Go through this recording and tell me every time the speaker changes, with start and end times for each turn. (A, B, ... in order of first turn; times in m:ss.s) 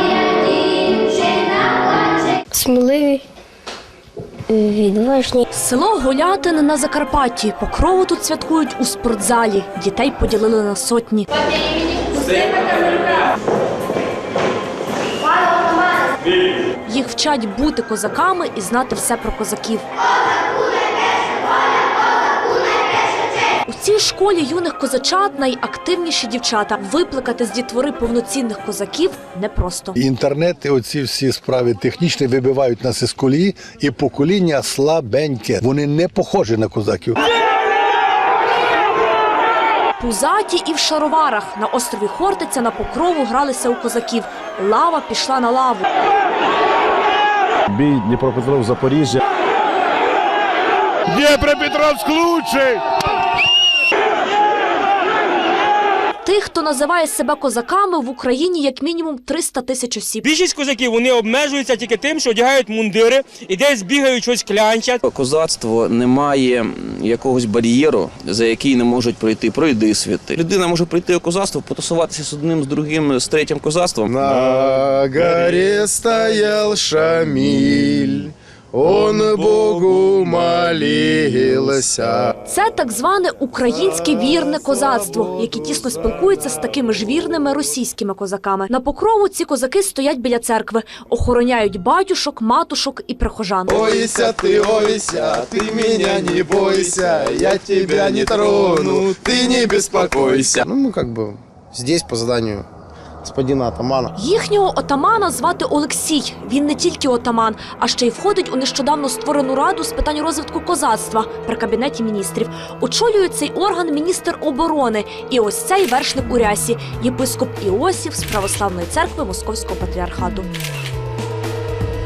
0:01.1-0:01.5 A
0:02.4-0:03.2 A
0:04.5-0:05.4 A
0:05.5-0:11.3 B
0:16.8-0:19.8 B
0:23.7-0:30.0 B
0:30.0-0:37.2 C
0:40.0-0:45.9 B
0:56.2-1:00.3 B
1:00.2-1:05.0 D
1:05.0-1:14.2 E
1:14.0-1:22.3 F
1:22.5-1:33.8 B
1:33.7-1:42.6 F
1:43.2-1:44.1 F
1:44.2-2:00.5 B